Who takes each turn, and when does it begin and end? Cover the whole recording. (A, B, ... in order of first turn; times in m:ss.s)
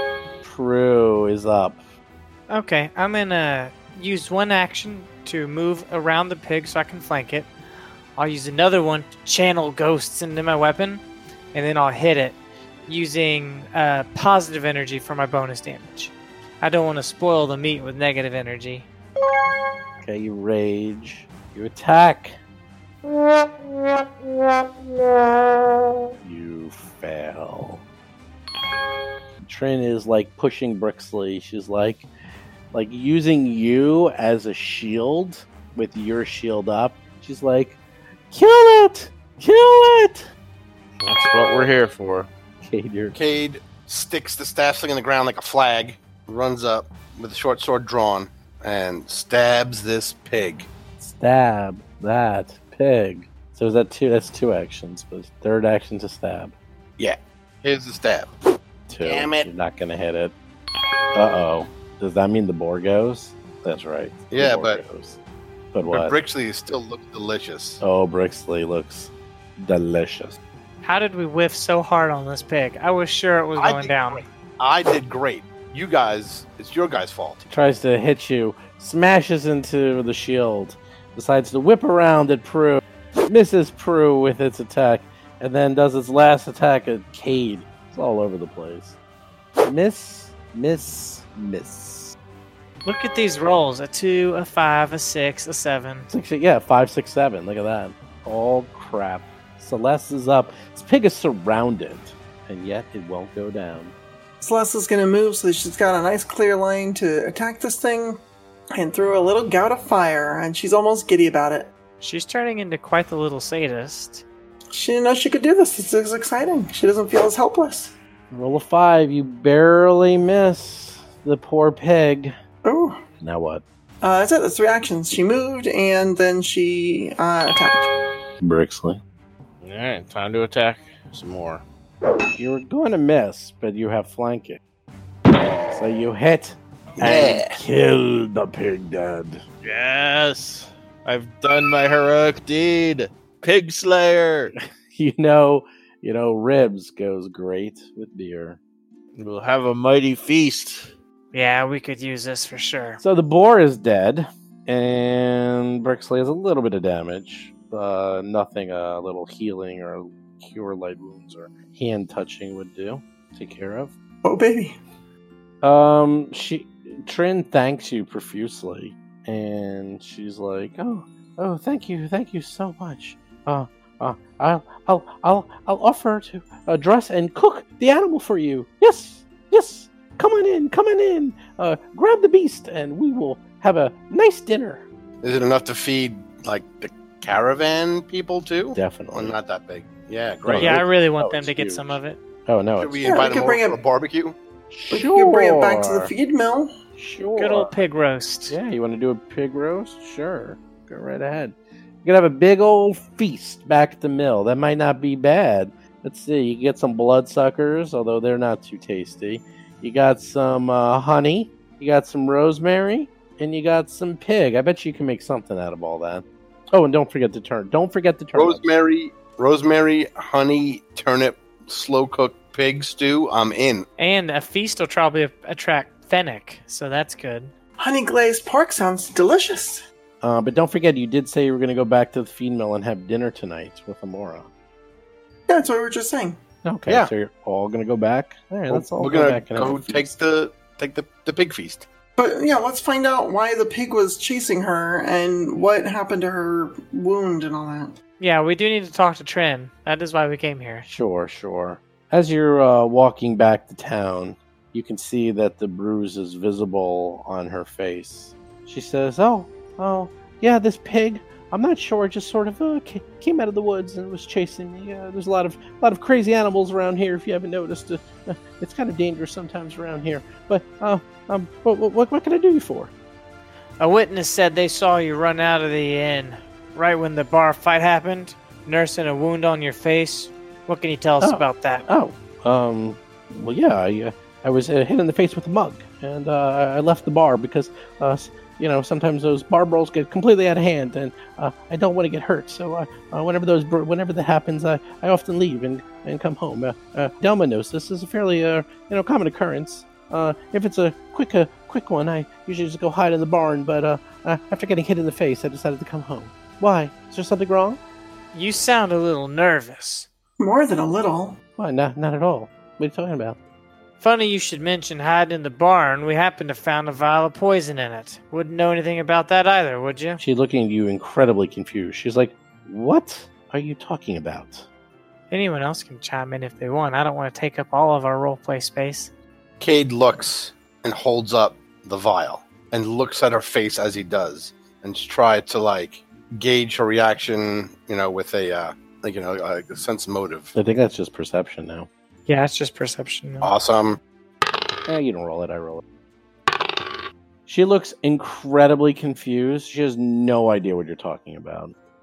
0:00.4-0:01.8 A
0:02.5-0:07.5 B
0:08.2-0:11.0 B
0:11.5-0:18.9 B
0:20.0-0:22.4 A
0:26.2-0:27.8 A
0:29.4-0:32.1 A
0:32.7-0:37.8 A
0:38.3-0:40.3 A
0:41.0-0:42.3 C
0:42.6-0:43.2 A
0:43.1-0:50.7 D
0:51.0-0:56.5 A
0:57.0-0:58.3 D
0:58.9-1:00.3 A
0:59.0-0:59.5 D
1:01.1-1:05.2 A
1:04.3-1:04.8 D
1:05.7-1:06.2 A
1:05.9-1:07.8 D
1:07.8-1:10.4 A
1:10.8-1:14.2 B
1:13.6-1:17.5 D
1:17.5-1:29.0 A
1:29.6-1:32.2 A
1:32.8-1:36.1 B
1:36.1-1:44.0 A
1:44.4-1:48.2 E
1:48.8-1:51.7 E
1:52.0-1:54.2 B
1:54.7-1:58.0 E
1:58.3-2:02.4 A
2:02.6-2:03.0 E
2:03.2-2:03.6 A
2:04.0-2:07.9 E
2:08.4-2:09.0 A
2:09.6-2:11.6 C
2:12.4-2:14.6 A
2:15.7-2:19.4 A
2:17.0-2:17.6 D
2:19.6-2:24.5 C
2:24.9-2:28.6 A
2:29.2-2:30.9 C
2:31.3-2:33.0 B
2:33.0-2:43.9 A
2:44.2-2:44.8 E
2:45.6-3:04.8 A
3:05.2-3:10.8 D
3:08.7-3:09.4 A
3:10.4-3:13.3 A
3:10.6-3:12.2 B
3:12.8-3:14.4 D
3:13.0-3:13.8 E
3:14.7-3:16.1 A
3:14.9-3:16.7 E
3:17.0-3:17.7 A
3:17.4-3:18.6 B
3:18.5-3:38.6 A
3:38.3-3:43.9 D
3:44.0-3:47.5 B
3:47.8-3:49.8 E
3:50.2-3:54.5 A
3:55.5-3:56.4 E
3:56.6-4:00.1 A
3:58.7-4:01.8 D
4:02.2-4:07.9 E
4:08.2-4:10.9 B
4:10.9-4:32.9 A
4:33.8-4:41.9 B
4:41.2-5:07.8 A
5:08.3-5:10.1 B
5:10.4-5:11.4 E
5:11.6-5:13.4 A
5:14.0-5:20.2 B
5:20.2-5:24.7 A
5:25.3-5:29.1 B
5:29.6-5:40.5 D
5:40.6-5:41.9 A
5:42.3-5:43.5 B
5:43.4-5:44.0 D
5:44.9-5:45.8 A
5:47.5-5:51.7 A